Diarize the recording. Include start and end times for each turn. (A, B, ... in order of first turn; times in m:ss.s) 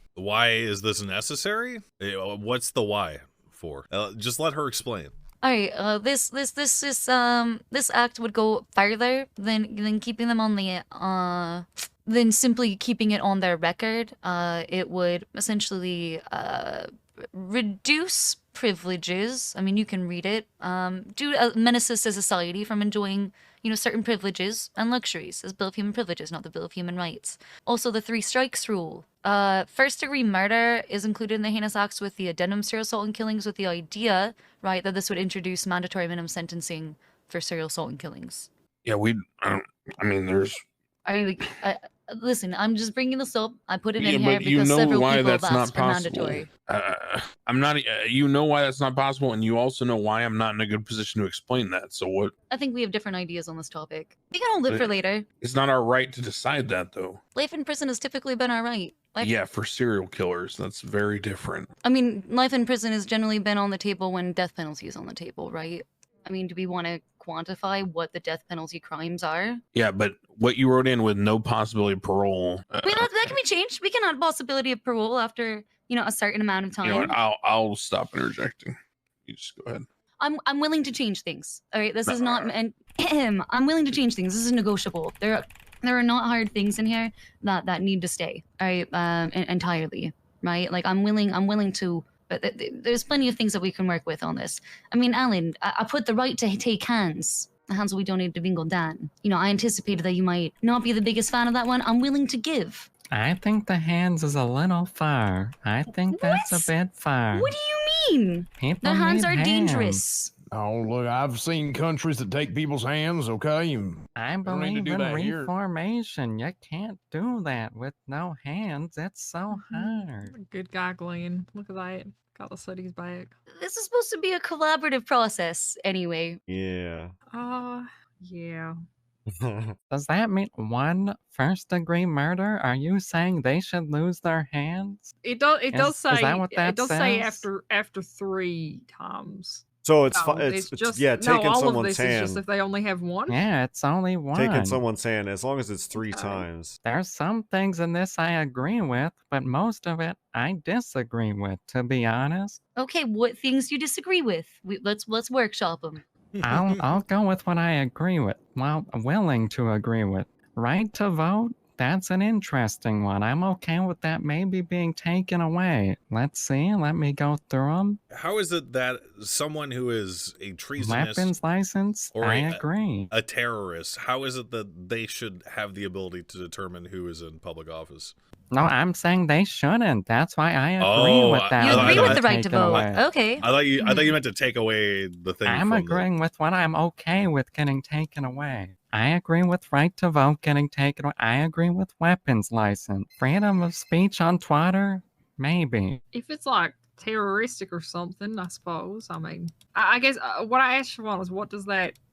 0:00.2-0:05.2 A
0:05.4-0:38.5 B
0:38.8-0:40.6 C
0:41.1-0:46.5 B
0:44.0-0:52.3 C
0:52.5-0:55.2 B
0:54.7-0:57.2 C
0:57.4-0:59.3 B
0:59.2-1:01.7 C
1:01.8-1:09.6 B
1:09.8-1:13.1 C
1:12.8-1:17.2 B
1:16.8-1:19.9 C
1:20.2-1:42.9 B
1:22.1-1:22.5 C
1:43.1-1:47.5 D
1:46.1-1:46.7 B
1:47.3-1:50.3 B
1:48.6-1:50.0 D
1:50.5-1:55.5 E
1:54.2-2:00.3 D
1:59.5-2:03.3 F
2:03.6-2:06.4 B
2:06.5-2:07.1 G
2:07.3-2:08.8 F
2:09.3-2:09.8 G
2:09.9-2:15.1 D
2:15.2-2:23.4 F
2:15.7-2:17.5 D
2:19.8-2:22.4 G
2:23.3-2:24.8 D
2:24.3-2:26.8 G
2:26.0-2:26.5 F
2:26.8-2:32.6 D
2:32.8-2:36.0 B
2:36.4-2:36.9 A
2:36.4-2:48.0 D
2:48.1-2:51.3 A
2:50.8-2:53.1 D
2:52.2-2:58.2 A
2:58.5-3:03.0 D
3:00.8-3:02.9 A
3:01.6-3:04.2 B
3:03.4-3:06.1 A
3:05.5-3:16.0 D
3:16.1-3:22.0 F